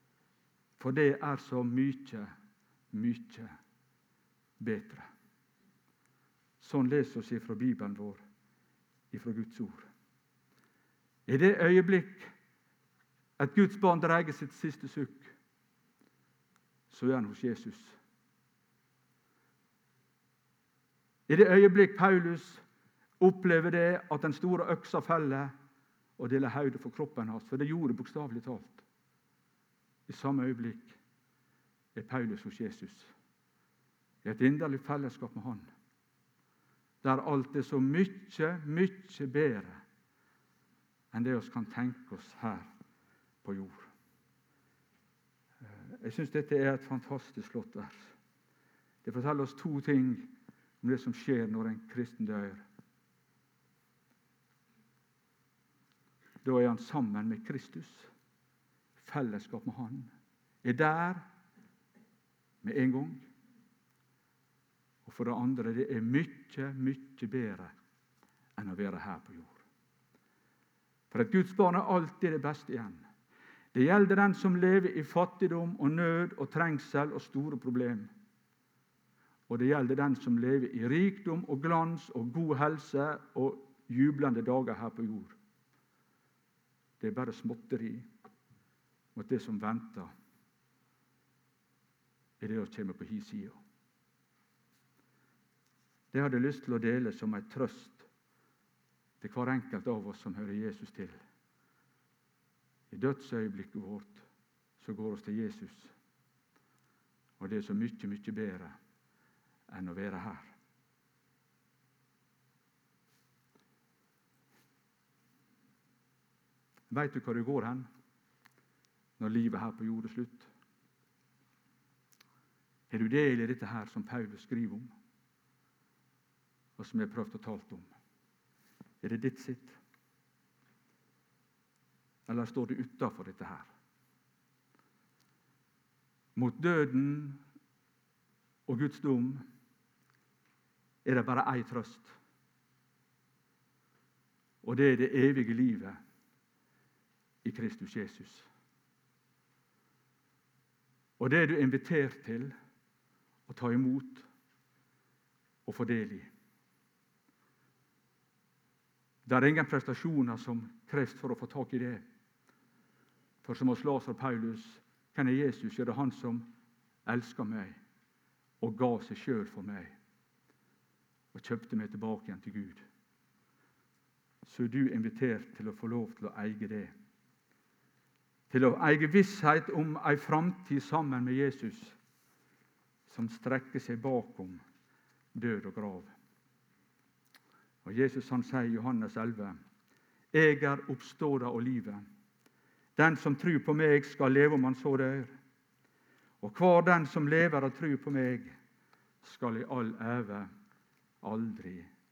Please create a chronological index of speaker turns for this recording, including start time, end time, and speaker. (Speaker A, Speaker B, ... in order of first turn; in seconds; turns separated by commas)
Speaker A: 0.8-2.3, Speaker A: 2.9-3.5, Speaker A: 4.6-5.1, Speaker A: 6.6-8.2, Speaker A: 9.1-9.9, Speaker A: 11.3-12.3, Speaker A: 13.4-15.3, Speaker A: 16.9-18.0, Speaker A: 21.3-22.6, Speaker A: 23.2-25.5, Speaker A: 26.2-28.8, Speaker A: 30.1-31.0, Speaker A: 31.9-33.1, Speaker A: 34.2-35.7, Speaker A: 37.0-39.8, Speaker A: 41.1-42.7, Speaker A: 43.4-43.9, Speaker A: 45.6-48.1, Speaker A: 49.0-50.3, Speaker A: 50.8-52.6, Speaker A: 56.4-58.1, Speaker A: 59.0-60.1, Speaker A: 60.6-61.2, Speaker A: 62.6-63.3, Speaker A: 65.0-67.7, Speaker A: 68.6-69.6, Speaker A: 71.1-73.0, Speaker A: 73.7-78.1, Speaker A: 79.5-85.4, Speaker A: 87.0-88.1, Speaker A: 89.2-90.1, Speaker A: 92.4-93.6, Speaker A: 96.1-98.1, Speaker A: 99.2-101.2, Speaker A: 102.9-104.3, Speaker A: 104.8-105.9, Speaker A: 107.4-108.7, Speaker A: 109.7-110.5, Speaker A: 116.9-117.9, Speaker A: 119.2-120.5, Speaker A: 122.9-124.9, Speaker A: 126.8-127.9, Speaker A: 129.0-129.8, Speaker A: 132.3-133.7, Speaker A: 136.3-137.4, Speaker A: 138.7-139.4, Speaker A: 141.1-142.1, Speaker A: 144.6-146.0, Speaker A: 147.4-148.5, Speaker A: 151.2-152.5, Speaker A: 153.5-154.3, Speaker A: 155.7-156.3, Speaker A: 159.2-162.0, Speaker A: 163.4-166.5, Speaker A: 167.1-167.8, Speaker A: 168.6-169.9, Speaker A: 171.3-172.8, Speaker A: 174.4-176.9, Speaker A: 178.5-182.0, Speaker A: 183.1-184.6, Speaker A: 185.3-186.1, Speaker A: 187.8-189.6, Speaker A: 190.3-192.1, Speaker A: 193.0-195.3, Speaker A: 196.4-198.6, Speaker A: 199.2-200.5, Speaker A: 201.2-201.9